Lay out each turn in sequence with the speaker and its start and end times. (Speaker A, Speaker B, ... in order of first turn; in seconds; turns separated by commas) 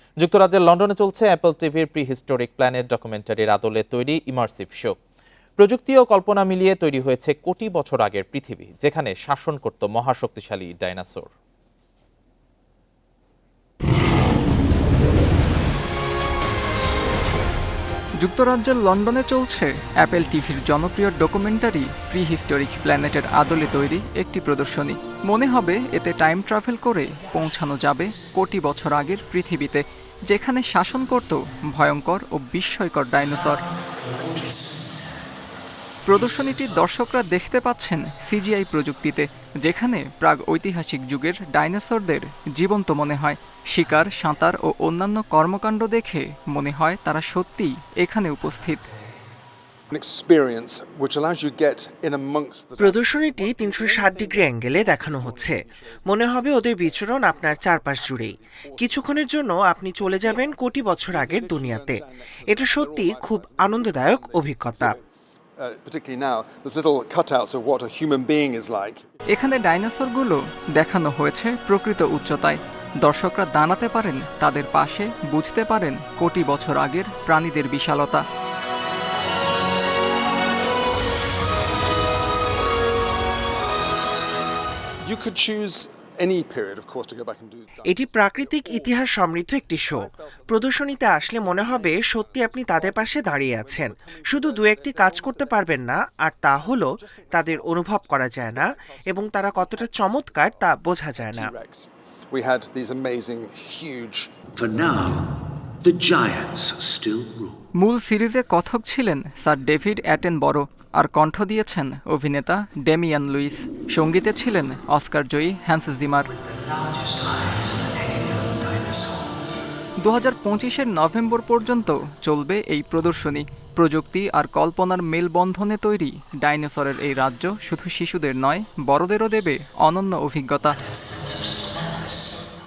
Speaker A: 0.2-5.0, Speaker A: 5.6-11.3, Speaker B: 18.2-33.6, Speaker C: 33.3-35.2, Speaker B: 36.1-48.9, Speaker C: 36.4-36.8, Speaker C: 48.6-49.2, Speaker D: 49.9-59.3, Speaker E: 52.8-65.0, Speaker D: 60.0-69.8, Speaker B: 69.3-78.2, Speaker D: 85.0-95.8, Speaker E: 87.9-101.5, Speaker D: 96.5-104.4, Speaker C: 104.6-107.6, Speaker B: 107.8-116.3, Speaker C: 116.2-119.4, Speaker B: 120.0-130.8, Speaker C: 130.7-132.5